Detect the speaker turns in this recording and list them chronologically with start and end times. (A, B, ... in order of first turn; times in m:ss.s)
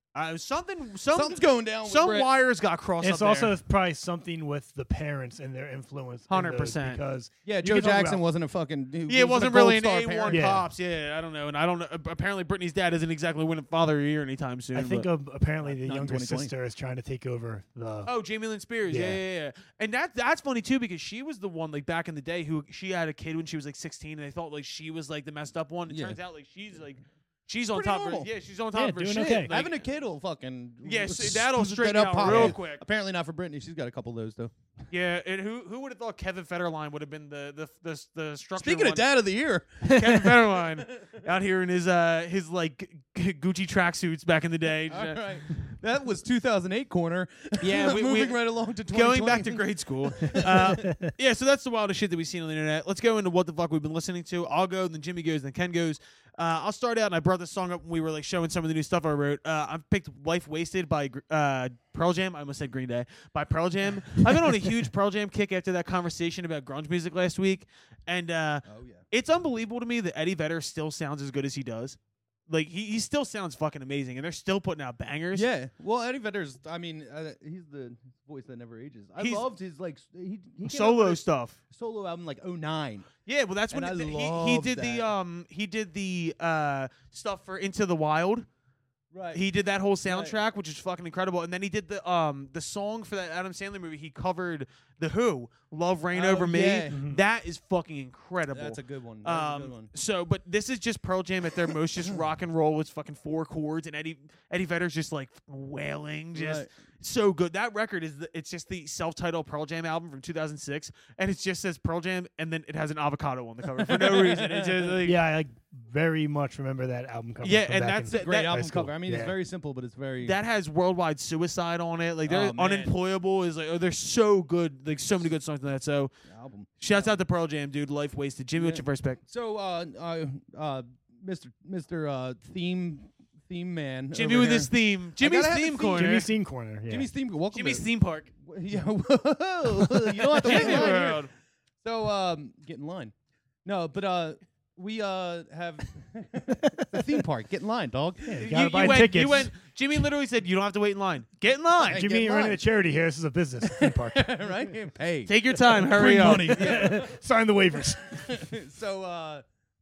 0:00.2-0:03.6 A
0:01.1-0:02.3 B
0:03.0-0:08.2 C
0:06.3-0:07.0 A
0:07.4-0:10.6 B
0:09.1-0:15.1 A
0:10.3-0:10.7 C
0:14.8-0:18.1 C
0:15.6-0:16.5 B
0:18.1-0:29.9 A
0:18.9-0:19.2 C
0:25.9-0:26.2 B
0:27.7-0:28.3 B
0:28.8-0:29.5 C
0:29.5-0:34.5 B
0:30.8-0:32.8 A
0:32.2-0:32.6 C
0:34.9-0:39.1 A
0:38.6-0:41.2 B
0:39.8-0:45.2 A
0:44.9-0:50.9 B
0:47.6-0:48.4 A
0:48.9-1:15.5 A
0:50.8-0:51.1 C
1:08.7-1:09.0 B
1:15.3-1:23.1 B
1:19.2-1:19.5 A
1:20.6-1:21.6 A
1:23.3-1:28.5 A
1:23.7-1:25.1 B
1:29.1-1:29.4 B
1:29.3-1:55.2 A
1:30.0-1:30.4 B
1:36.1-1:37.2 B
1:36.9-1:37.2 C
1:38.5-1:39.9 B
1:46.3-1:46.7 B
1:53.8-1:55.0 B
1:55.0-1:59.3 C
1:57.4-1:58.6 A
1:58.1-2:00.4 B
2:00.2-2:06.1 A
2:02.3-2:02.9 B
2:06.3-2:07.2 B
2:06.8-2:09.2 A
2:08.6-2:16.3 B
2:14.1-2:16.3 A
2:15.9-2:17.1 C
2:16.9-2:17.9 B
2:17.5-2:18.3 A
2:18.4-2:21.2 B
2:19.8-2:20.9 C
2:20.4-2:21.3 A
2:21.8-2:23.1 B
2:23.6-2:28.6 B
2:26.6-2:27.0 C
2:28.3-2:29.5 C
2:28.4-2:32.0 A
2:31.8-2:32.6 B
2:31.9-2:34.5 C
2:33.6-2:37.2 B
2:35.3-2:36.9 A
2:36.1-2:38.4 C
2:38.1-2:39.4 B